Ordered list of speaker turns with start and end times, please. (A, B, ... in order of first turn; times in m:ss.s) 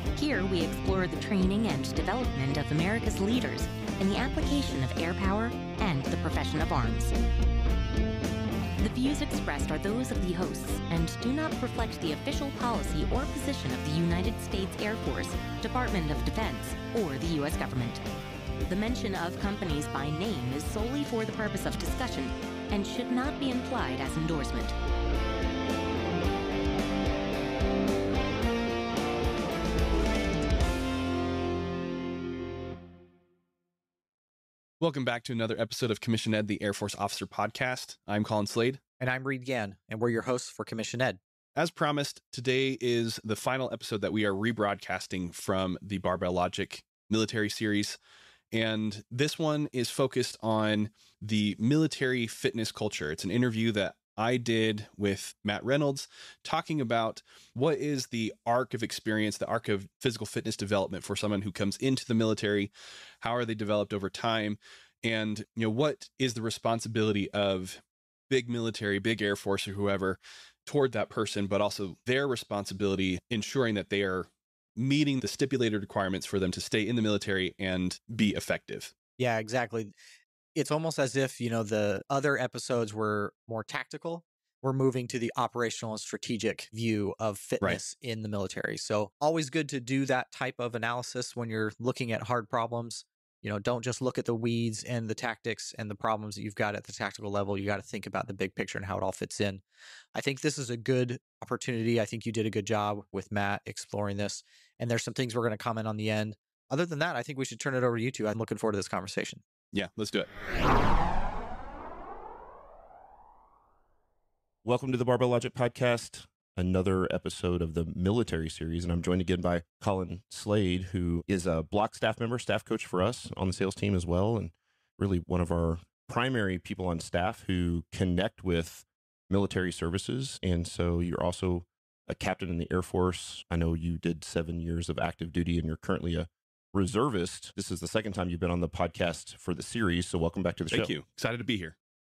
0:00.1-0:07.1 A
0:08.8-0:18.0 A
0:18.6-0:24.7 A
0:34.8-0:38.8 B
0:39.0-0:41.2 C
0:41.6-0:48.0 B
0:48.5-1:18.9 B
1:19.2-1:19.9 C
1:20.5-1:39.6 C
1:40.1-1:49.4 C
1:49.7-1:50.3 B
1:54.6-2:20.9 D
2:20.7-2:21.7 B